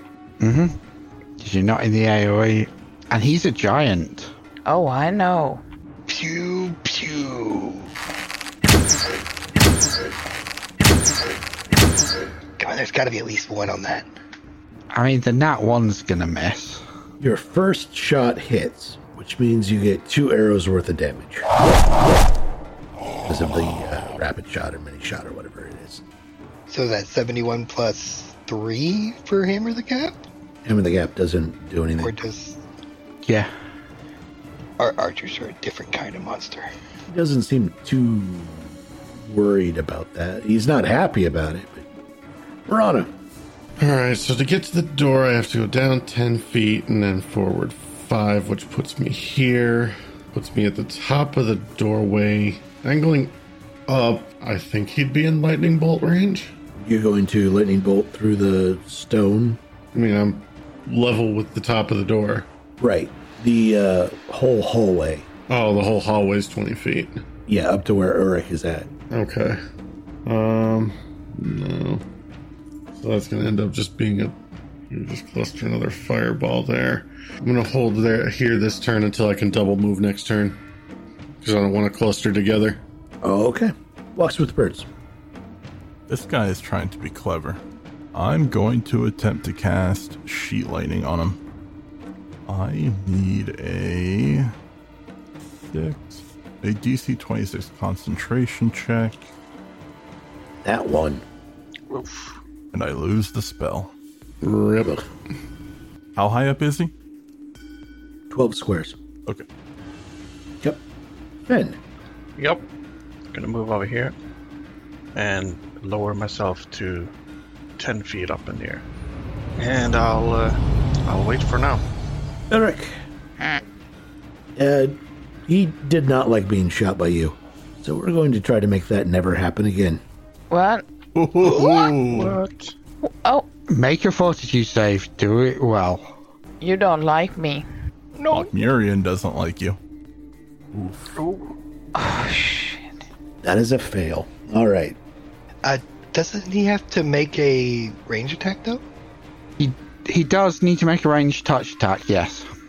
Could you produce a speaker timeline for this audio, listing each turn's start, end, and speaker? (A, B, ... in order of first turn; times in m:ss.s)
0:00.4-0:00.8 A
0:01.4-0:04.3 A
0:04.6-0:05.6 B
0:06.1-0:07.9 C
0:12.6-0:14.1 C
0:14.9-0:16.8 A
0:17.2-0:21.5 D
0:23.2-0:26.0 D
0:26.7-0:30.2 C
0:30.6-0:32.1 D
0:32.0-0:32.6 C
0:33.2-0:33.5 A
0:34.8-0:36.7 C
0:37.1-0:41.8 D
0:42.7-0:43.1 D
0:43.8-0:53.3 E
0:53.9-0:56.5 E
0:56.8-0:59.6 D
0:59.9-1:02.5 E
1:02.8-1:05.3 D
1:05.5-1:07.2 E
1:07.5-1:08.9 D
1:09.1-1:09.6 E
1:10.2-1:12.0 E
1:12.9-1:14.4 E
1:14.9-1:20.6 E
1:21.4-1:22.8 E
1:23.2-1:24.9 D
1:26.1-1:27.6 F
1:28.1-1:31.4 F
1:32.4-1:34.5 F
1:35.7-1:39.3 F
1:40.6-1:41.2 D
1:41.9-1:42.2 G
1:42.7-1:43.9 F
1:44.4-1:45.0 E
1:46.2-1:46.9 F
1:48.3-1:49.0 D
1:51.5-1:51.8 D
1:52.4-1:52.6 G
1:53.3-1:54.1 G
1:55.1-1:57.1 G
1:57.8-1:58.8 G
1:59.6-2:01.8 G
2:02.5-2:02.9 D
2:04.6-2:10.0 D
2:10.5-2:10.8 B
2:11.2-2:12.2 F
2:11.4-2:11.9 B
2:11.5-2:12.7 G
2:13.0-2:13.4 B
2:13.7-2:16.1 A
2:16.6-2:17.6 B
2:18.3-2:19.8 F
2:21.2-2:21.5 G
2:21.9-2:22.8 B
2:23.4-2:25.0 D
2:25.6-2:28.8 C
2:29.6-2:32.5 A